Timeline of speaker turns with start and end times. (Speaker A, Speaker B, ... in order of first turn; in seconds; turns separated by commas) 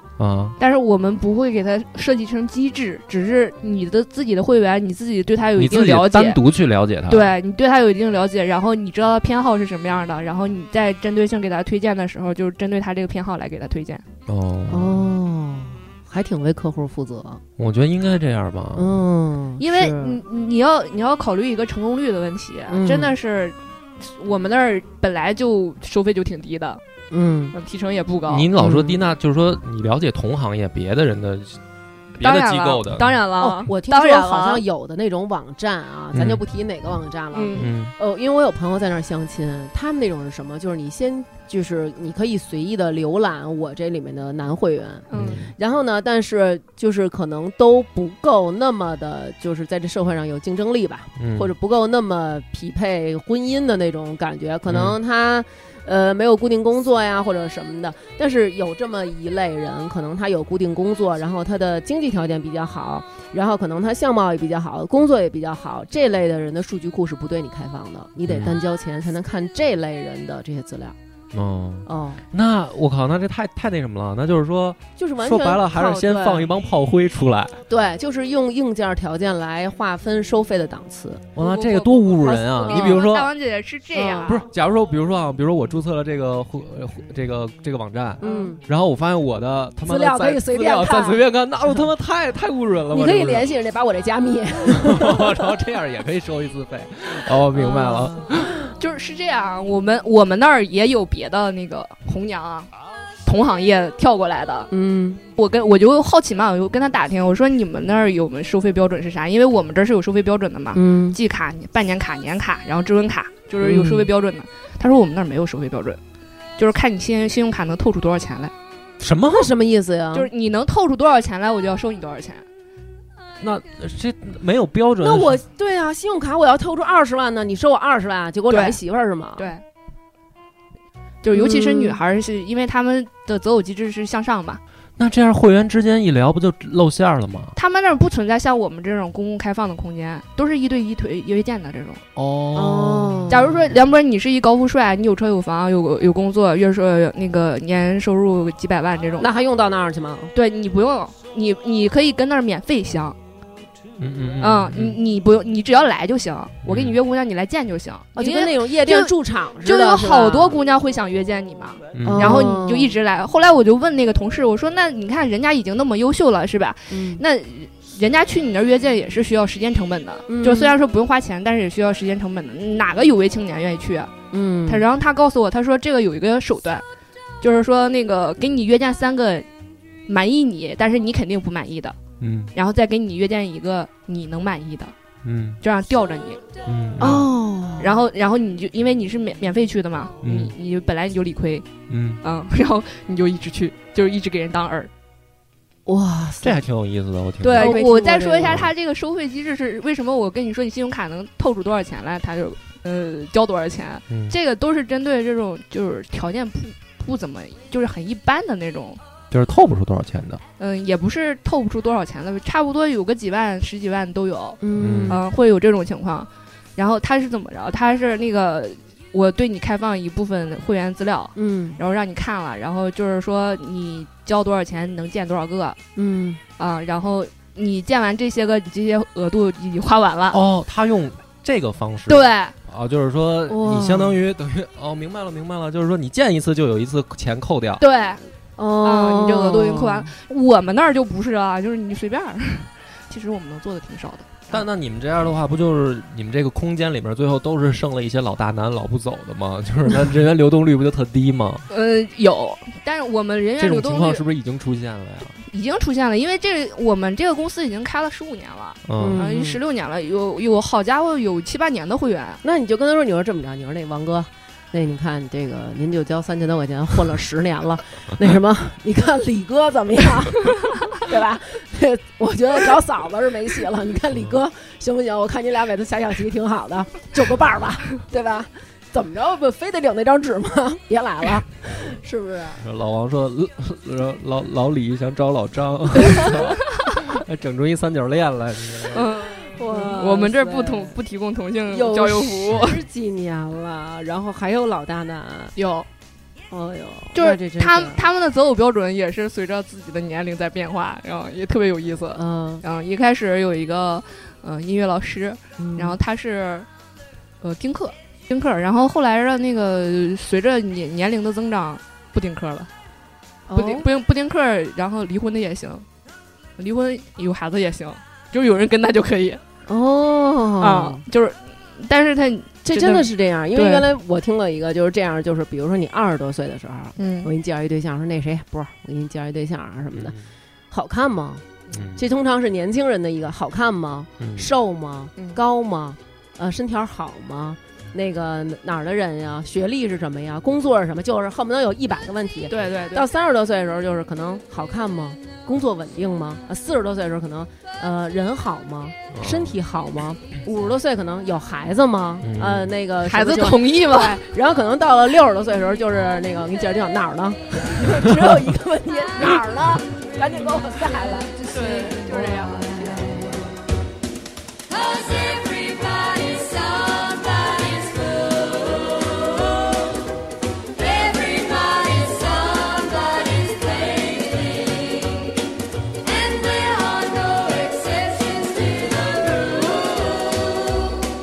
Speaker A: 0.2-0.6, Speaker B: 0.6-6.4, Speaker A: 5.6-7.3, Speaker B: 7.1-14.0, Speaker A: 14.3-15.1, Speaker C: 14.7-17.4, Speaker A: 17.6-18.9, Speaker C: 18.7-20.2, Speaker B: 19.6-26.8, Speaker C: 22.7-23.1, Speaker C: 27.1-27.5, Speaker B: 27.5-28.5, Speaker A: 28.3-31.6, Speaker C: 28.6-29.0, Speaker A: 32.1-33.2, Speaker B: 32.2-34.6, Speaker C: 33.4-71.0, Speaker A: 36.1-36.4, Speaker B: 37.3-37.7, Speaker A: 37.5-37.9, Speaker B: 45.1-45.4, Speaker A: 45.1-45.5, Speaker A: 51.2-51.5, Speaker A: 54.7-55.0, Speaker A: 68.3-68.6, Speaker A: 71.3-77.6, Speaker C: 71.8-72.2, Speaker C: 75.0-76.5, Speaker C: 77.7-81.3, Speaker A: 81.3-83.3, Speaker B: 81.4-84.5, Speaker C: 82.2-83.1, Speaker C: 83.9-84.4, Speaker A: 84.2-93.5, Speaker C: 88.2-88.6, Speaker C: 89.8-91.2, Speaker C: 92.9-95.5, Speaker A: 94.6-98.5, Speaker C: 97.5-98.5, Speaker B: 98.8-102.7, Speaker B: 103.2-104.7, Speaker C: 104.7-105.2, Speaker B: 105.3-116.0, Speaker C: 110.7-111.2, Speaker C: 113.6-114.1, Speaker B: 116.6-118.5, Speaker A: 119.0-119.5, Speaker C: 119.3-120.3, Speaker B: 120.1-122.5, Speaker A: 123.4-125.4, Speaker C: 125.0-129.5, Speaker B: 128.5-128.8, Speaker B: 129.4-129.6, Speaker B: 131.2-134.6, Speaker C: 131.3-132.0, Speaker A: 135.0-137.5, Speaker B: 137.6-142.0, Speaker A: 142.2-143.4, Speaker C: 142.5-143.6, Speaker B: 143.3-149.3, Speaker C: 149.2-150.3, Speaker B: 150.3-153.2, Speaker A: 154.0-155.0, Speaker B: 154.4-174.1, Speaker A: 156.6-157.0, Speaker C: 158.2-160.6, Speaker A: 161.9-162.6, Speaker C: 162.0-162.9, Speaker C: 166.9-167.2, Speaker C: 170.3-170.8, Speaker C: 174.3-174.8, Speaker B: 174.7-176.8, Speaker B: 177.4-179.5, Speaker B: 180.1-182.0, Speaker A: 182.2-182.5, Speaker B: 182.5-184.9, Speaker A: 185.2-185.6, Speaker B: 185.6-186.4, Speaker A: 186.7-187.3, Speaker B: 187.0-187.2, Speaker C: 187.0-188.0, Speaker B: 187.8-191.7, Speaker A: 190.2-190.5, Speaker A: 191.9-192.2, Speaker B: 192.2-194.9, Speaker C: 195.8-196.6, Speaker A: 196.4-197.8, Speaker B: 197.4-209.0, Speaker C: 197.5-198.6, Speaker A: 198.4-198.7, Speaker A: 204.1-204.3, Speaker A: 209.3-210.4, Speaker B: 210.6-225.8, Speaker C: 214.6-215.2, Speaker A: 214.8-215.2, Speaker C: 221.3-221.8, Speaker C: 225.9-226.4, Speaker B: 226.6-230.4, Speaker A: 230.3-237.8, Speaker B: 232.1-232.5, Speaker C: 233.5-234.2, Speaker B: 237.8-238.2, Speaker C: 238.6-240.1, Speaker B: 238.8-244.6, Speaker A: 244.5-251.7, Speaker B: 251.7-254.2, Speaker A: 253.6-255.4, Speaker B: 255.4-262.4, Speaker A: 258.8-259.2, Speaker C: 259.0-259.6, Speaker C: 262.4-282.6, Speaker A: 282.6-289.1, Speaker C: 286.1-286.4, Speaker B: 288.9-292.8, Speaker C: 289.4-291.0, Speaker C: 291.7-295.5, Speaker B: 295.6-295.9, Speaker C: 296.5-298.0, Speaker B: 297.1-306.7, Speaker C: 302.1-302.6, Speaker C: 305.6-306.0, Speaker B: 307.4-312.7, Speaker C: 313.5-313.9, Speaker B: 313.6-315.9, Speaker B: 316.6-319.4, Speaker C: 319.7-321.0, Speaker B: 320.6-323.9, Speaker C: 322.6-330.2, Speaker B: 327.0-327.3, Speaker A: 329.9-330.2, Speaker C: 330.7-363.4, Speaker A: 331.7-332.0, Speaker A: 334.2-334.5, Speaker B: 342.5-343.1, Speaker A: 349.1-349.6, Speaker A: 352.2-352.7, Speaker B: 353.0-354.2, Speaker A: 358.1-358.4, Speaker B: 361.5-363.1, Speaker D: 364.7-369.2, Speaker D: 370.8-375.3, Speaker D: 376.0-380.9